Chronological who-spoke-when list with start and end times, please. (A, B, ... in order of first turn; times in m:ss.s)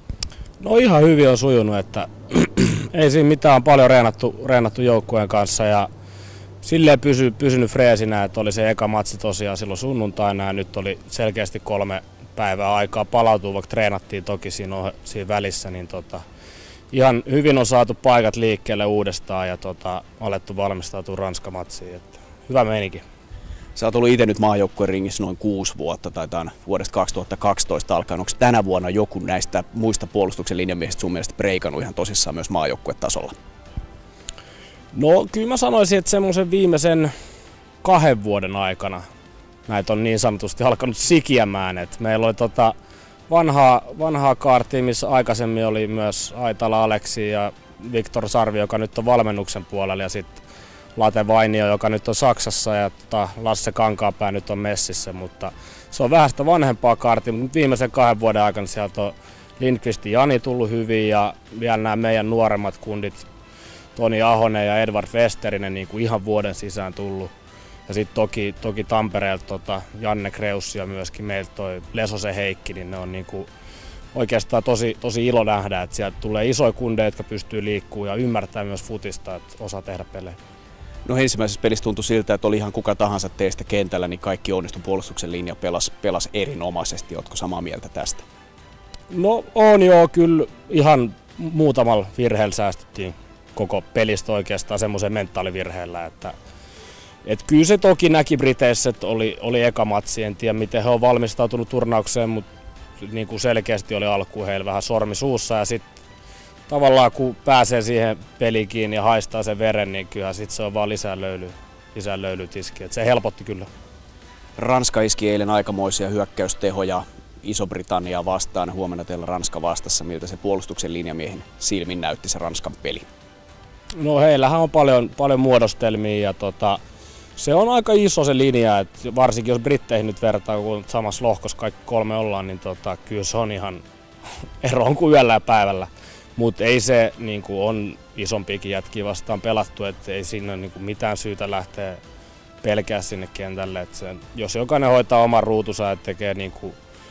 0:00.6-0:05.9 A
0:06.6-0:16.2 A
0:16.9-0:23.0 A
0:23.8-0:33.3 B
0:34.9-0:37.1 A
0:37.8-0:39.0 A
0:39.7-0:42.7 A
0:43.3-0:50.4 A
0:51.0-1:03.2 A
1:04.0-1:07.3 A
1:07.9-1:13.5 A
1:14.1-1:20.4 A
1:21.0-1:28.2 B
1:29.1-1:36.3 A
1:37.2-1:42.4 A
1:43.0-1:45.8 A
1:46.7-1:53.7 A
1:54.6-2:03.1 B
2:04.0-2:06.8 A
2:07.4-2:13.8 A
2:14.6-2:22.0 A
2:22.6-2:26.8 A